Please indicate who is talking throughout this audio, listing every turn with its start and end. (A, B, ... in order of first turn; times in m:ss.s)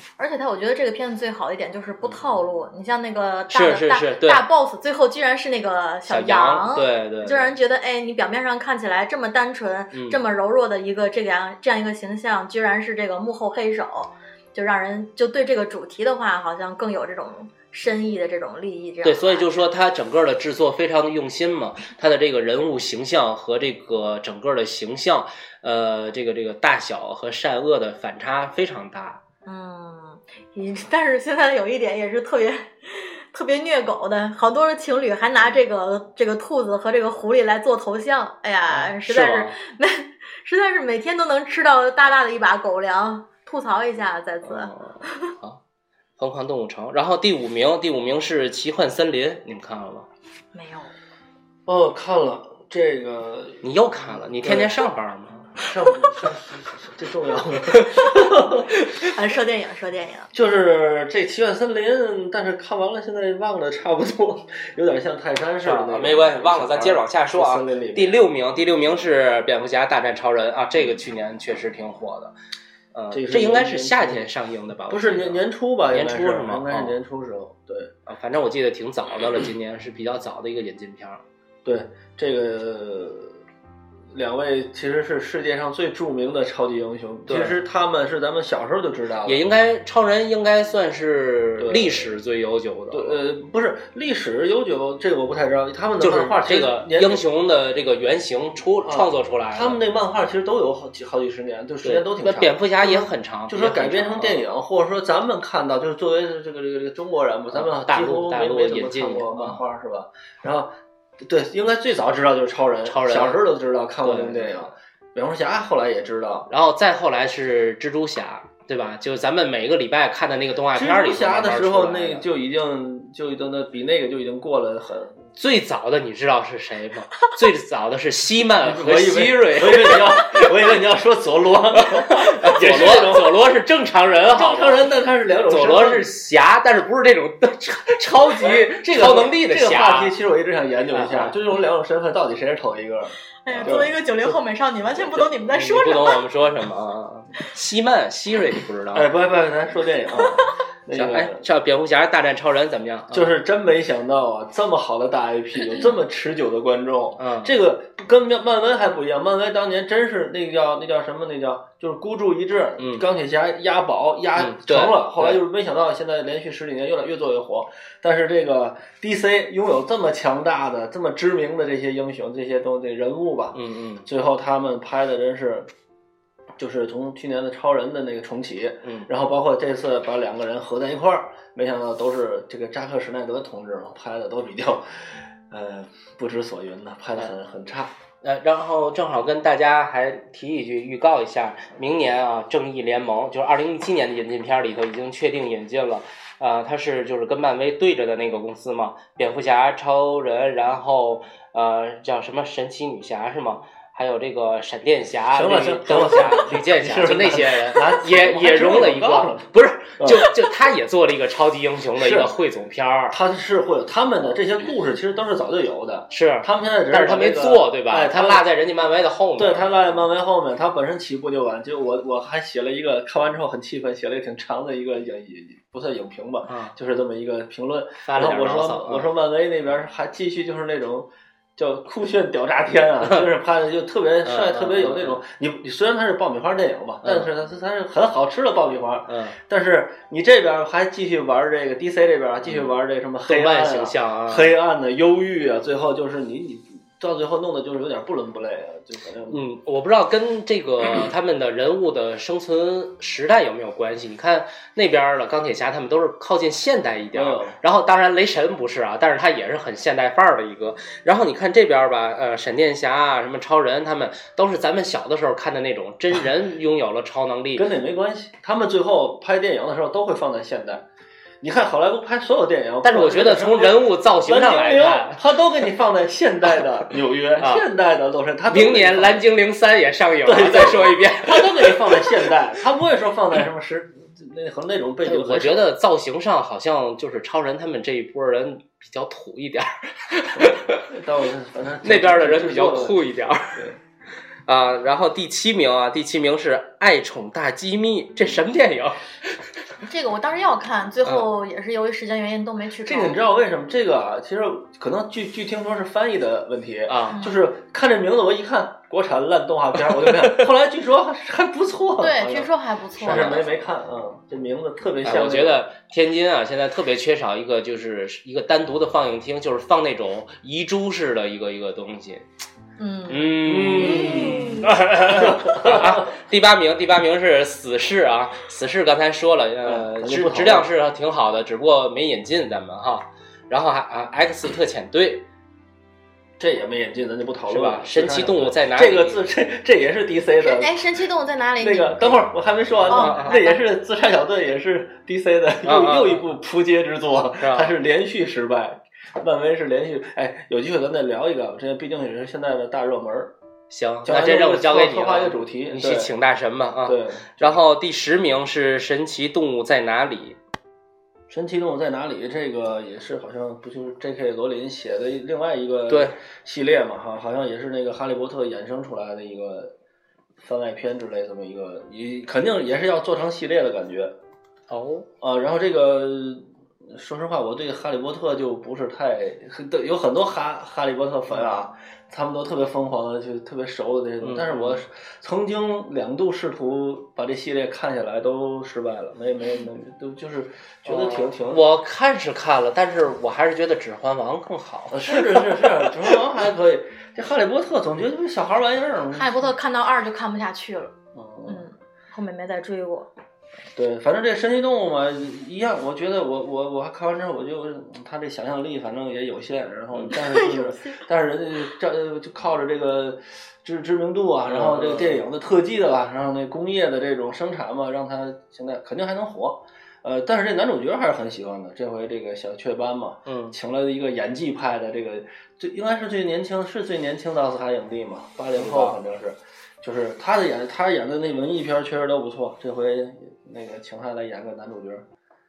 0:00.2-0:19.5 A
0:03.5-0:04.4 B
0:06.1-0:07.5 B
0:09.9-0:10.2 B
0:19.0-0:29.2 B
0:29.4-0:45.3 A
0:38.7-0:39.6 B
0:44.4-0:45.6 B
0:46.2-0:50.1 B
0:50.5-0:50.9 A
0:51.6-0:54.8 C
0:53.6-0:55.6 B
0:55.6-0:58.7 C
0:59.0-1:00.3 A
1:00.3-1:08.2 C
1:05.6-1:12.3 B
1:12.9-1:17.0 B
1:13.1-1:14.2 C
1:14.9-1:17.9 C
1:18.0-1:21.2 B
1:21.6-1:23.4 C
1:24.1-1:29.4 C
1:27.3-1:27.6 B
1:29.2-1:33.2 B
1:31.6-1:32.1 C
1:32.9-1:37.2 C
1:36.0-1:39.8 B
1:38.8-1:56.5 C
1:41.8-1:44.4 B
1:47.5-1:49.6 B
1:52.8-1:53.4 B
1:54.0-1:54.7 B
1:56.5-2:02.2 B
2:00.7-2:05.2 C
2:05.4-2:10.5 B
2:08.6-2:13.4 C
2:11.9-2:20.1 B
2:14.3-2:16.1 C
2:18.4-2:23.9 C
2:20.9-2:21.3 B
2:23.4-2:26.2 A
2:23.5-2:23.8 B
2:25.5-2:29.1 B
2:28.9-2:31.4 C
2:30.9-2:33.3 B
2:33.1-2:55.7 C
2:37.2-2:37.5 B
2:42.8-2:43.1 B
2:44.4-2:45.4 B
2:53.5-2:54.0 B
2:56.6-3:07.9 C
2:58.8-2:59.1 B
3:08.2-3:33.2 B
3:25.3-3:29.4 C
3:30.0-3:30.3 C
3:32.0-3:32.3 C
3:33.1-3:38.4 C
3:36.1-3:40.0 B
3:39.4-4:09.4 C
3:46.4-3:46.7 B
3:48.0-3:49.1 B
3:54.2-3:55.2 B
3:57.0-3:57.3 B
3:59.1-3:59.4 B
4:03.3-4:04.5 B
4:09.3-4:27.7 B
4:17.1-4:17.5 C
4:27.6-4:30.8 C
4:31.4-4:39.3 C
4:32.8-4:35.2 B
4:37.4-4:37.6 B
4:38.5-4:42.2 B
4:40.2-4:45.6 C
4:45.0-4:50.8 B
4:50.3-4:53.0 C
4:51.8-4:53.7 B
4:54.5-4:59.4 B
4:59.8-5:03.2 A
5:02.8-5:15.6 C
5:06.9-5:07.2 B
5:07.1-5:07.4 A
5:10.0-5:10.4 B
5:12.0-5:13.5 A
5:13.0-5:13.5 B
5:15.0-5:22.2 B
5:22.8-5:24.7 A
5:23.1-5:35.2 B
5:23.4-5:26.1 C
5:29.6-5:30.7 C
5:36.4-5:40.7 C
5:37.5-5:39.2 B
5:40.4-5:42.3 A
5:41.6-5:53.3 C
5:42.8-5:43.4 B
5:42.9-5:43.6 A
5:45.6-5:46.2 B
5:47.4-5:47.7 B
5:53.7-6:00.4 B
5:54.0-5:56.1 C
5:56.8-5:57.6 C
6:01.3-6:09.7 C
6:05.9-6:06.1 B
6:10.4-6:14.1 C
6:14.7-6:15.1 B
6:15.2-6:31.6 C
6:24.2-6:24.8 B
6:30.8-6:35.7 B
6:34.9-6:39.5 C
6:39.1-6:40.9 A
6:41.1-6:41.6 C
6:41.4-6:43.1 A
6:43.7-7:15.0 C
6:50.1-6:51.0 A
6:54.5-6:55.2 B
7:03.3-7:03.6 B
7:08.5-7:09.0 B